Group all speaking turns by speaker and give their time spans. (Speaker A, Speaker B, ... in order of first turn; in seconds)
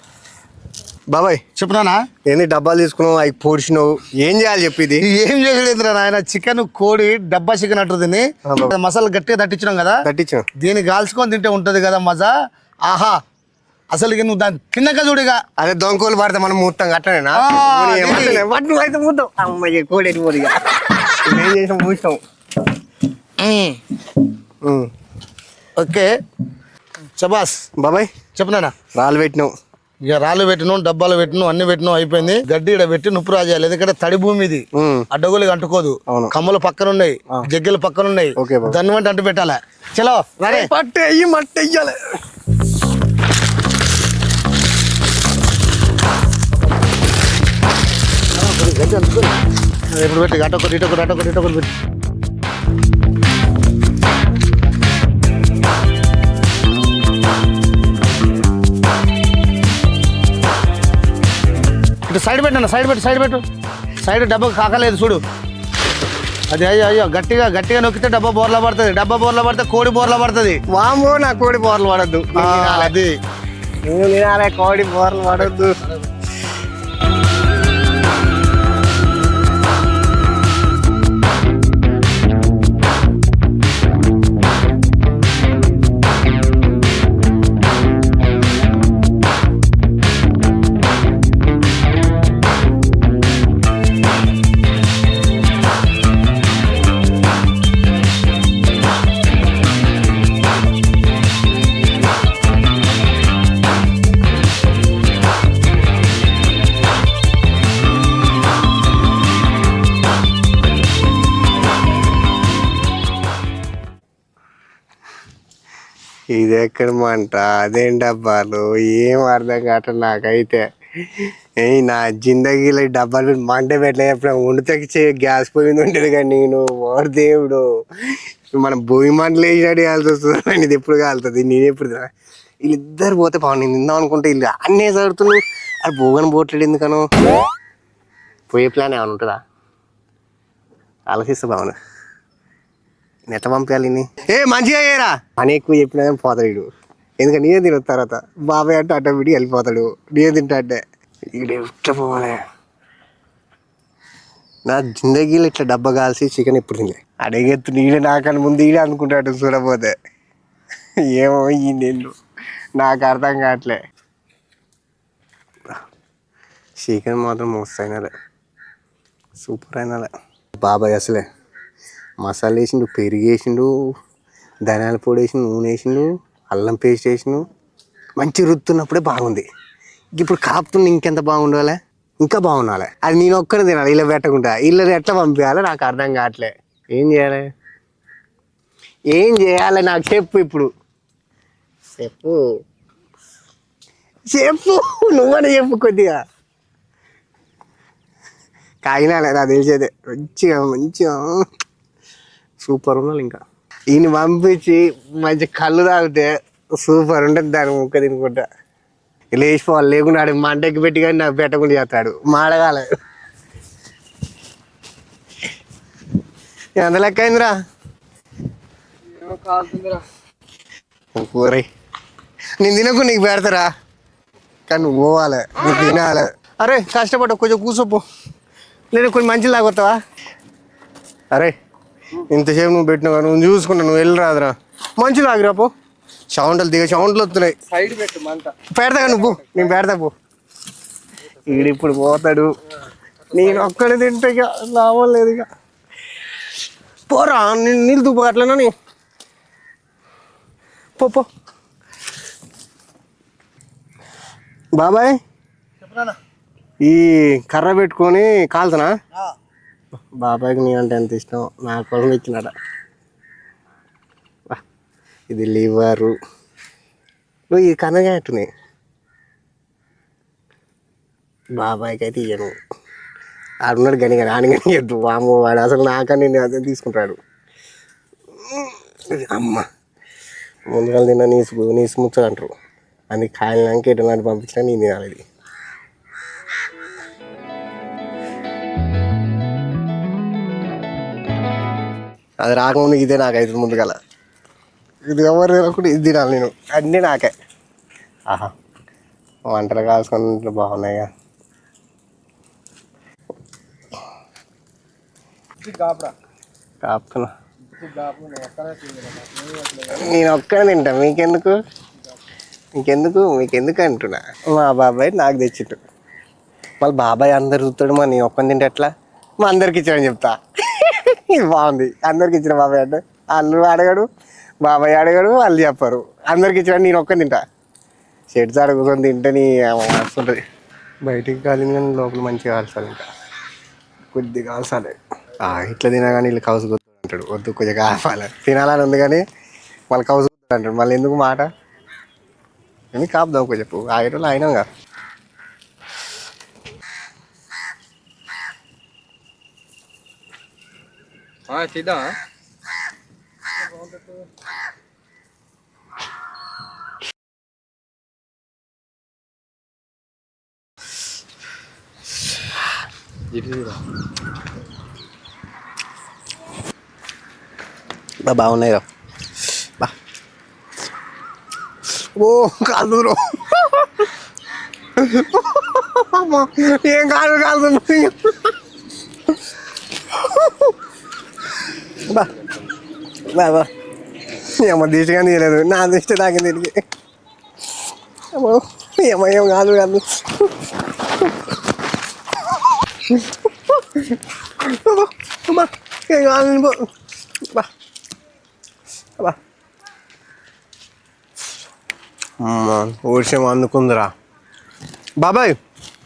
Speaker A: 1.1-1.4, 2.3-5.1, 8.5-8.7, 10.1-10.5, 15.6-20.6, 21.2-22.2, 24.6-24.9, 27.8-28.1, 28.9-29.5, 34.8-35.1, 36.1-36.3, 38.4-38.8, 40.5-42.0, 70.7-72.9, 73.9-75.7, 116.3-132.1, 132.6-137.1, 138.5-139.4, 141.1-141.8, 143.3-146.7, 147.2-150.8, 151.3-152.4, 154.7-159.9, 161.1-162.1, 162.8-163.8, 166.8-168.1, 169.4-171.2, 172.2-173.7, 174.7-177.4, 178.2-179.4, 180.2-187.5, 189.1-190.7, 192.0-192.4, 194.3-196.2, 198.8-201.4, 202.6-208.4, 209.3-212.9, 216.8-217.5, 221.2-221.7, 222.6-223.7, 224.7-228.0, 228.9-230.0, 232.2-235.7, 236.3-237.6, 238.7-240.1, 241.4-242.5, 243.3-245.5, 247.1-248.7, 251.0-251.3, 254.8-255.2, 256.8-258.9, 260.2-262.5, 265.3-266.1, 267.5-268.5, 271.6-272.6, 273.7-277.2, 278.4-279.7, 280.7-282.5, 283.1-285.2, 292.4-294.0, 295.1-297.3, 299.5-301.1, 306.8-307.3, 309.8-311.6, 312.8-315.8, 316.8-318.9, 319.4-324.1, 324.6-327.4, 328.3-330.4, 331.1-333.1, 334.1-339.2, 339.9-341.5, 342.9-344.7, 368.2-368.9, 372.2-374.0, 375.0-378.5, 380.1-380.7, 382.1-382.3, 383.3-383.7, 384.6-386.8, 388.3-390.5, 393.1-396.8, 402.4-404.1, 405.2-405.6
Speaker B: 1.6-2.0, 5.0-10.0, 10.6-12.3, 12.9-13.2, 13.9-15.4, 17.4-18.4, 23.4-23.8, 25.8-26.1, 27.2-27.6, 28.4-28.7, 30.0-40.7, 48.3-49.4, 49.9-51.7, 62.1-63.4, 64.0-65.2, 66.5-70.6, 72.4-73.2
Speaker C: 219.2-220.0, 237.7-238.6, 239.2-239.7, 305.7-306.1, 307.8-309.8, 351.5-352.2, 363.3-363.8